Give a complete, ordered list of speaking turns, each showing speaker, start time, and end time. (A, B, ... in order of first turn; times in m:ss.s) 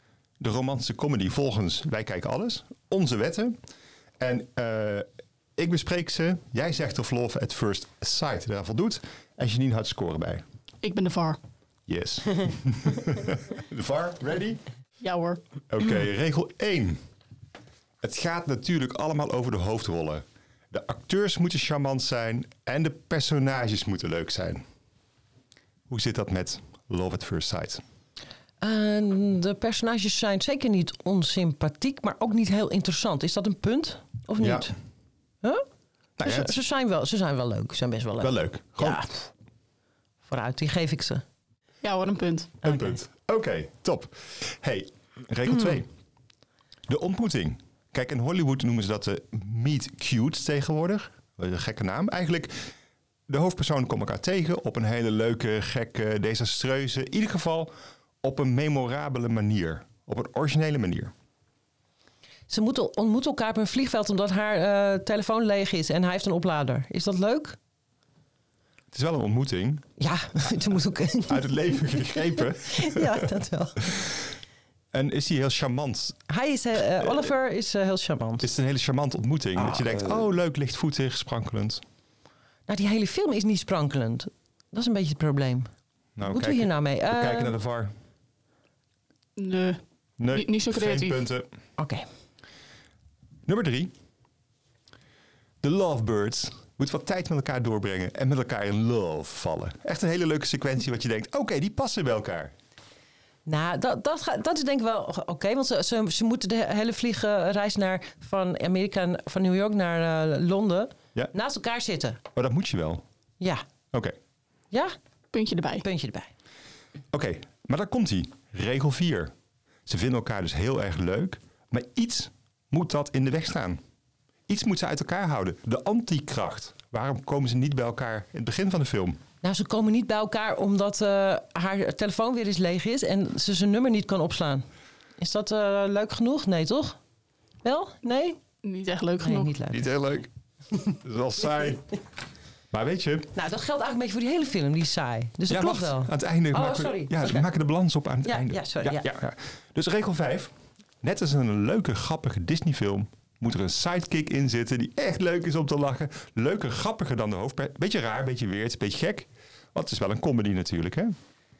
0:00.4-0:03.6 A
0:04.2-0:10.4 A
0:10.8-0:11.4 B
0:11.9-0:14.6 A
0:15.0-0:15.4 B
0:15.7-0:17.0 A
0:18.0-0:24.6 A
0:25.9-0:27.8 A
0:28.6-0:34.7 C
0:34.4-0:34.7 A
0:36.2-0:36.6 A
0:36.2-0:39.2 C
0:38.2-0:39.0 A
0:40.2-0:41.2 C
0:41.8-0:42.6 B
0:42.6-0:45.9 A
0:42.6-0:43.0 C
0:46.9-0:52.7 A
0:53.3-1:01.1 A
1:02.5-1:07.6 C
1:08.9-1:09.8 A
1:10.0-1:13.9 C
1:11.2-1:13.3 A
1:13.9-1:14.2 A
1:14.9-1:16.2 A
1:16.3-1:18.5 C
1:17.0-1:17.3 A
1:18.4-1:21.8 A
1:19.6-1:20.2 C
1:22.7-1:25.7 C
1:26.2-1:27.9 A
1:26.2-1:27.5 C
1:29.4-1:31.2 B
1:30.2-1:31.5 A
1:31.8-1:32.0 C
1:33.4-1:33.9 A
1:35.6-1:42.5 A
1:43.4-1:52.2 C
1:52.3-1:53.0 A
1:55.3-1:55.8 B
1:55.8-1:56.3 C
1:57.1-1:59.3 A
1:59.8-2:03.8 A
2:04.5-2:09.2 A
2:09.4-2:14.6 C
2:15.2-2:17.0 C
2:17.6-2:18.4 C
2:18.6-2:19.6 B
2:19.2-2:19.8 C
2:19.7-2:20.3 A
2:20.9-2:21.9 A
2:22.7-2:23.3 A
2:23.3-2:27.5 C
2:25.5-2:41.1 A
2:28.2-2:29.1 C